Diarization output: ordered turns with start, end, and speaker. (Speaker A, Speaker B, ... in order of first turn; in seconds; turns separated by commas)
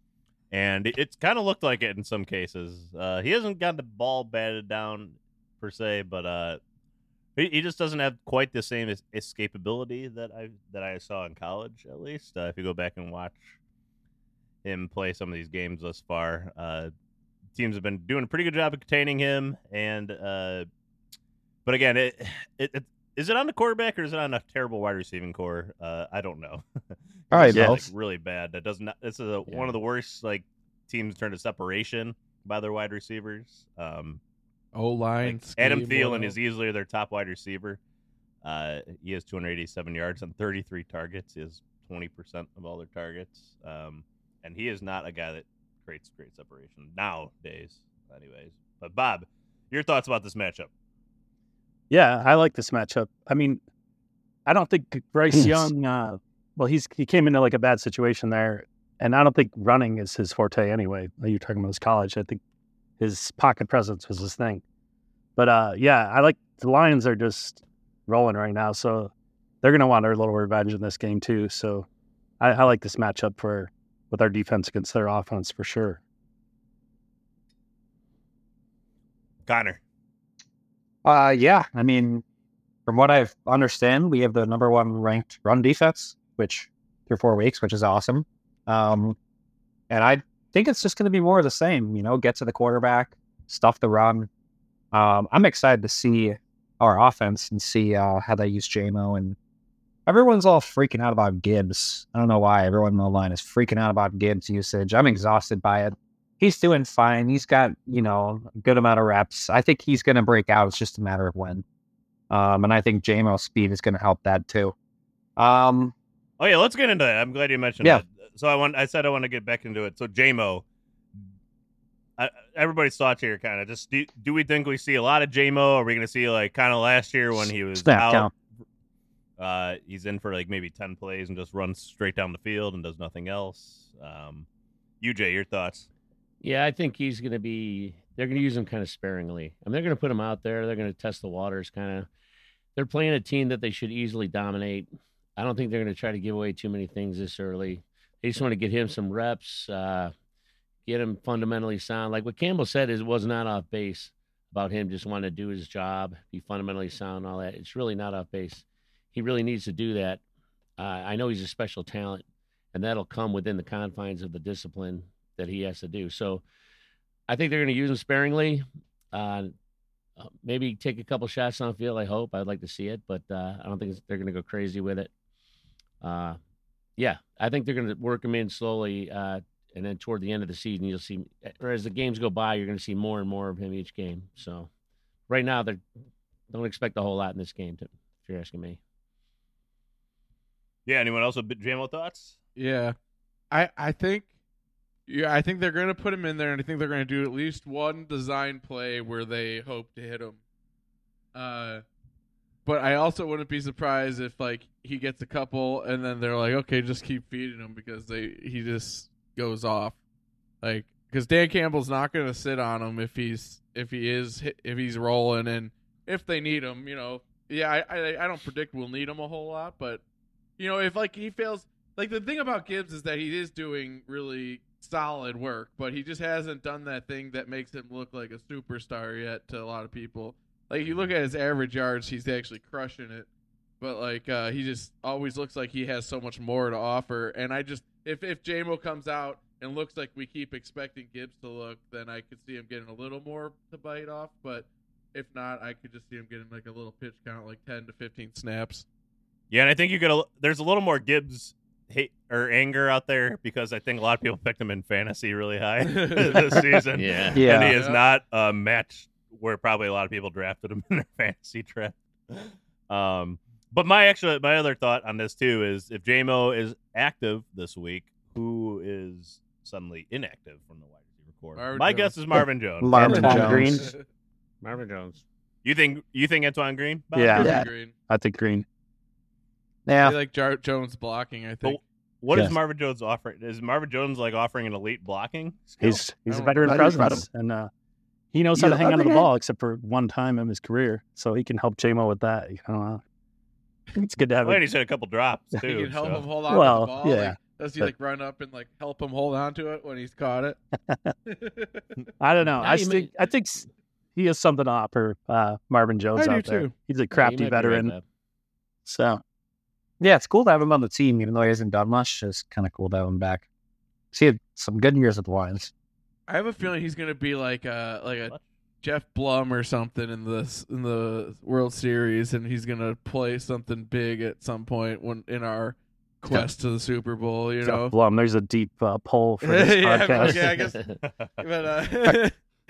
Speaker A: 0.5-6.6, Speaker A: 7.4-13.6, Speaker A: 14.6-16.9, Speaker A: 17.6-20.7, Speaker A: 21.7-26.6, Speaker B: 27.3-27.9, Speaker A: 27.3-34.2, Speaker C: 27.5-27.8, Speaker D: 29.5-29.8, Speaker E: 34.7-36.4, Speaker A: 35.2-37.8, Speaker A: 38.4-50.7, Speaker C: 51.9-53.6, Speaker C: 54.5-62.4, Speaker C: 63.0-64.6, Speaker C: 65.4-71.9, Speaker C: 72.4-76.0, Speaker A: 79.5-79.8, Speaker B: 81.0-82.2, Speaker B: 82.9-89.2, Speaker B: 89.9-94.3, Speaker B: 94.9-99.4, Speaker B: 100.1-111.6, Speaker B: 112.3-114.8, Speaker B: 115.4-115.9, Speaker A: 116.4-120.6, Speaker A: 122.2-128.3, Speaker B: 127.4-128.3, Speaker A: 129.4-134.5, Speaker A: 135.0-135.9, Speaker D: 136.4-142.1, Speaker D: 142.8-150.1, Speaker D: 150.9-160.2, Speaker D: 160.8-166.4, Speaker D: 167.3-169.5, Speaker D: 170.2-175.1, Speaker D: 176.0-176.4, Speaker D: 177.0-184.7, Speaker D: 185.3-185.8, Speaker D: 186.5-188.8, Speaker A: 190.9-192.4, Speaker E: 192.6-192.9, Speaker E: 193.5-194.3, Speaker E: 195.1-200.4, Speaker E: 201.3-201.8, Speaker E: 202.7-210.0, Speaker E: 210.6-220.0, Speaker E: 220.6-233.3, Speaker E: 233.8-248.8, Speaker A: 249.5-273.6, Speaker E: 255.8-256.6, Speaker D: 257.0-257.5, Speaker B: 257.4-257.8, Speaker E: 257.7-258.0, Speaker E: 271.6-272.1, Speaker B: 272.8-273.9, Speaker C: 273.0-273.8, Speaker E: 273.0-274.0, Speaker D: 274.6-275.2, Speaker A: 275.6-277.5, Speaker C: 277.1-278.6, Speaker E: 277.3-277.9, Speaker B: 277.4-277.7, Speaker B: 279.9-280.2, Speaker E: 280.0-281.8, Speaker A: 281.6-286.1, Speaker C: 285.8-287.7, Speaker E: 286.3-287.1, Speaker B: 286.6-287.2, Speaker C: 288.3-293.0, Speaker B: 288.6-289.3, Speaker C: 293.9-294.6, Speaker A: 294.4-296.3, Speaker E: 295.6-300.6, Speaker C: 296.5-297.9, Speaker E: 301.3-301.8, Speaker C: 302.2-303.6, Speaker D: 302.6-303.1, Speaker C: 304.2-307.9, Speaker E: 306.1-306.8, Speaker D: 307.1-308.0, Speaker C: 308.9-309.2, Speaker B: 310.0-313.5, Speaker B: 314.1-315.7, Speaker E: 316.3-327.9, Speaker C: 327.6-330.6, Speaker E: 329.4-332.4, Speaker D: 330.2-331.0, Speaker A: 331.0-331.3